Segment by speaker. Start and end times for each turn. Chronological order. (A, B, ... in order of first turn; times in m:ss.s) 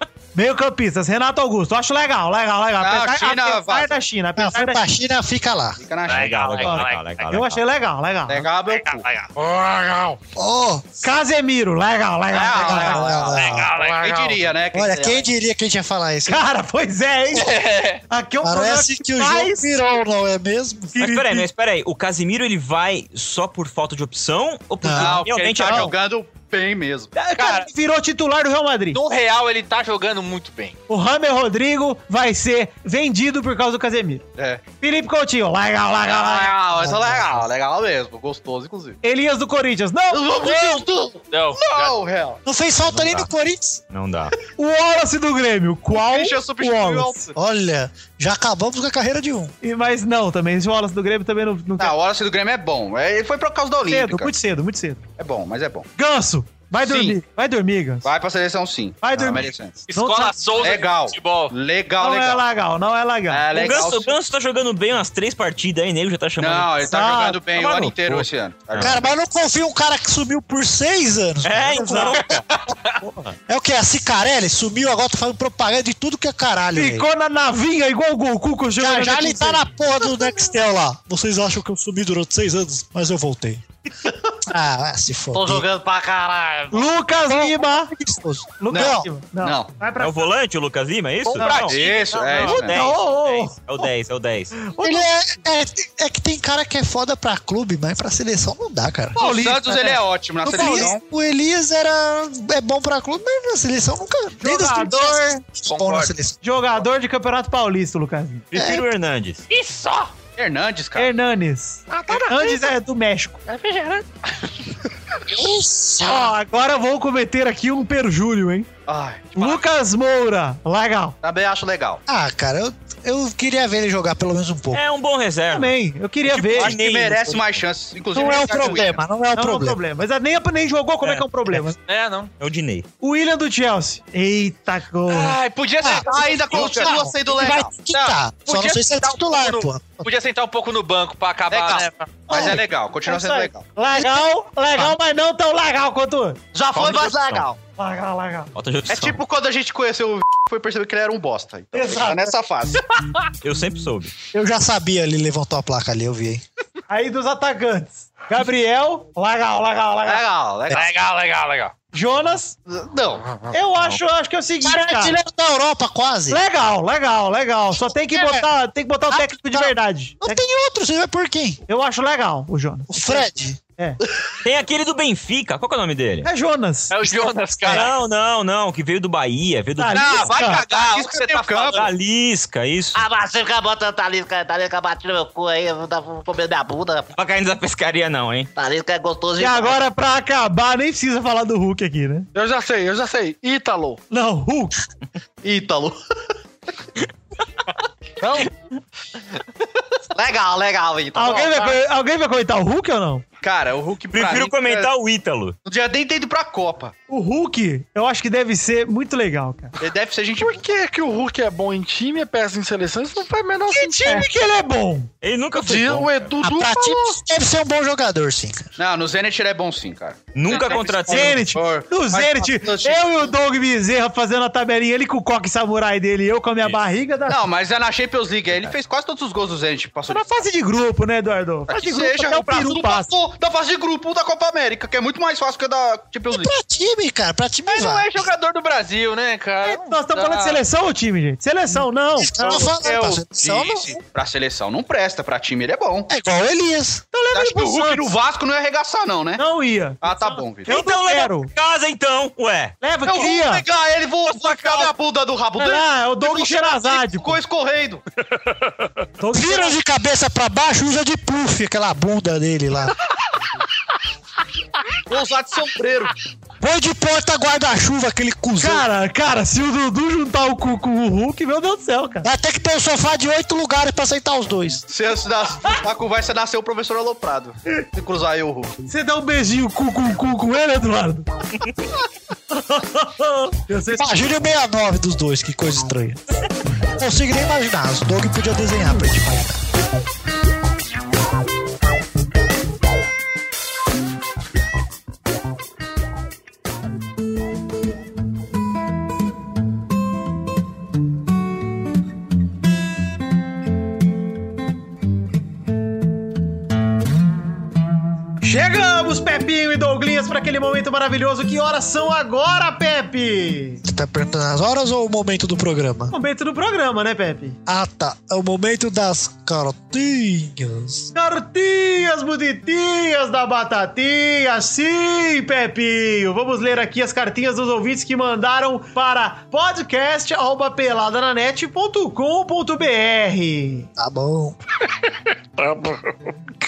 0:00.3-0:04.8 A
0:02.8-0:04.0 B
0:04.4-0:05.8 C
0:05.8-0:06.8 B
0:06.1-0:07.3 D
0:06.1-0:07.6 E
0:06.6-0:08.5 A
0:08.3-0:09.0 B
0:08.7-0:09.3 D
0:09.5-0:10.2 F
0:10.3-0:10.9 C
0:11.0-0:13.1 A
0:12.3-0:15.3 B
0:12.6-0:13.8 C
0:13.1-0:14.4 D
0:14.7-0:16.4 C
0:16.3-0:17.6 A
0:17.3-0:18.0 D
0:18.1-0:19.7 A
0:18.4-0:21.4 C
0:21.0-0:25.9 E
0:24.8-0:25.2 C
0:24.9-0:27.2 B
0:25.3-0:25.8 D
0:27.1-0:29.0 A
0:27.4-0:27.7 D
0:28.9-0:30.8 D
0:30.9-0:34.2 A
0:34.4-0:34.6 B
0:34.8-0:36.6 A
0:36.0-0:39.0 B
0:36.8-0:37.3 C
0:39.0-0:40.9 A
0:40.1-0:42.4 B
0:41.3-0:42.0 D
0:42.4-0:43.8 C
0:42.9-0:43.3 E
0:43.9-0:44.3 E
0:44.6-0:47.2 A
0:45.9-0:47.3 B
0:47.4-0:49.5 C
0:49.6-0:51.9 A
0:51.8-0:54.3 B
0:53.9-0:55.0 A
0:55.2-0:55.9 B
0:56.0-0:58.1 A
0:56.8-0:57.2 B
0:58.0-0:59.8 B
0:59.0-1:00.4 A
0:59.9-1:01.5 D
1:00.6-1:02.4 B
1:02.0-1:03.8 A
1:03.3-1:04.1 B
1:03.5-1:06.9 E
1:06.4-1:09.1 B
1:06.8-1:08.0 A
1:08.7-1:09.0 E
1:08.8-1:12.2 C
1:11.4-1:12.4 E
1:11.8-1:12.2 A
1:13.5-1:17.1 C
1:16.7-1:19.7 A
1:18.8-1:23.6 C
1:24.4-1:25.7 C
1:25.3-1:26.8 G
1:26.7-1:27.9 A
1:27.3-1:29.0 C
1:28.6-1:30.3 A
1:28.7-1:29.7 B
1:30.0-1:34.6 E
1:31.4-1:31.6 A
1:31.4-1:32.8 B
1:31.4-1:32.4 D
1:32.5-1:33.8 A
1:34.6-1:35.1 A
1:34.8-1:39.2 C
1:39.2-1:40.9 A
1:39.2-1:41.0 B
1:40.4-1:46.4 C
1:44.4-1:45.4 A
1:45.7-1:46.1 D
1:46.4-1:48.5 A
1:48.5-1:49.4 E
1:48.5-1:48.8 C
1:49.5-1:50.1 D
1:50.4-1:51.1 B
1:51.0-1:53.4 A
1:51.9-1:52.6 D
1:53.6-1:54.0 D
1:55.3-1:56.3 C
1:56.0-1:58.7 A
1:58.9-1:59.6 B
1:59.3-2:01.2 A
2:01.2-2:02.0 B
2:02.1-2:04.8 C
2:04.7-2:05.7 E
2:05.5-2:06.8 A
2:06.2-2:07.6 E
2:06.5-2:09.0 B
2:08.1-2:09.8 C
2:09.3-2:11.8 A
2:11.8-2:12.3 D
2:12.4-2:12.9 E
2:13.0-2:15.4 A
2:15.1-2:17.1 D
2:15.8-2:20.1 C
2:16.0-2:18.1 B
2:18.4-2:22.3 D
2:21.5-2:23.7 B
2:22.3-2:26.4 A
2:23.9-2:24.2 C
2:26.5-2:27.6 B
2:27.0-2:27.4 E
2:27.8-2:28.5 A
2:28.5-2:29.2 E
2:28.9-2:32.8 B
2:31.7-2:32.3 A
2:33.4-2:34.1 E
2:34.3-2:36.4 C
2:36.9-2:40.2 A
2:40.0-2:40.9 B
2:40.7-2:41.7 D
2:41.9-2:42.6 A
2:42.7-2:43.3 B
2:43.5-2:45.2 A
2:44.6-2:46.4 C
2:46.3-2:50.4 A
2:47.9-2:48.5 C
2:49.1-2:51.6 C
2:51.7-2:54.0 A
2:52.9-2:53.6 C
2:54.4-2:56.3 E
2:56.2-2:57.8 A
2:56.9-2:57.9 D
2:57.7-3:00.4 E
2:59.8-3:00.6 A
2:59.9-3:01.8 B
2:59.9-3:01.9 D
3:01.7-3:03.0 E
3:02.9-3:07.1 G
3:07.1-3:08.5 E
3:08.6-3:09.8 G
3:09.4-3:12.3 A
3:12.3-3:14.0 F
3:14.1-3:14.7 A
3:15.4-3:16.0 B
3:20.1-3:21.8 B
3:21.1-3:23.2 A
3:23.4-3:24.9 B
3:24.1-3:25.6 E
3:25.6-3:26.9 B
3:27.1-3:29.7 A
3:29.8-3:30.6 B
3:30.4-3:34.3 F
3:33.7-3:35.1 A
3:35.2-3:36.2 E
3:35.5-3:37.2 F
3:36.4-3:38.7 C
3:38.8-3:43.3 B
3:40.3-3:41.5 E
3:40.5-3:40.8 D
3:41.1-3:47.4 A
3:47.3-3:50.3 B
3:50.1-3:53.1 A
3:51.7-3:56.5 B
3:56.3-3:58.3 C
3:57.7-4:00.6 D
3:59.6-4:03.0 A
4:02.2-4:04.0 C
4:02.4-4:03.9 D
4:04.1-4:06.1 B
4:06.1-4:07.0 C
4:07.1-4:08.1 A
4:07.3-4:09.4 B
4:09.4-4:11.5 A
4:10.0-4:10.7 B
4:10.7-4:12.8 E
4:12.8-4:13.6 A
4:13.0-4:18.0 B
4:14.4-4:14.9 A
4:15.6-4:17.4 A
4:19.2-4:19.8 A
4:19.3-4:22.9 C
4:25.1-4:26.1 B
4:26.6-4:28.9 C
4:28.6-4:32.3 A
4:32.2-4:34.8 C
4:34.9-4:38.7 B
4:38.9-4:41.3 A
4:42.5-4:44.2 A
4:43.9-4:46.2 C
4:47.0-4:49.6 C
5:08.4-5:13.8 A
5:13.8-5:16.1 C
5:16.1-5:17.6 A
5:17.7-5:21.1 C
5:21.1-5:33.9 A
5:34.0-5:34.6 C
5:35.6-5:36.1 F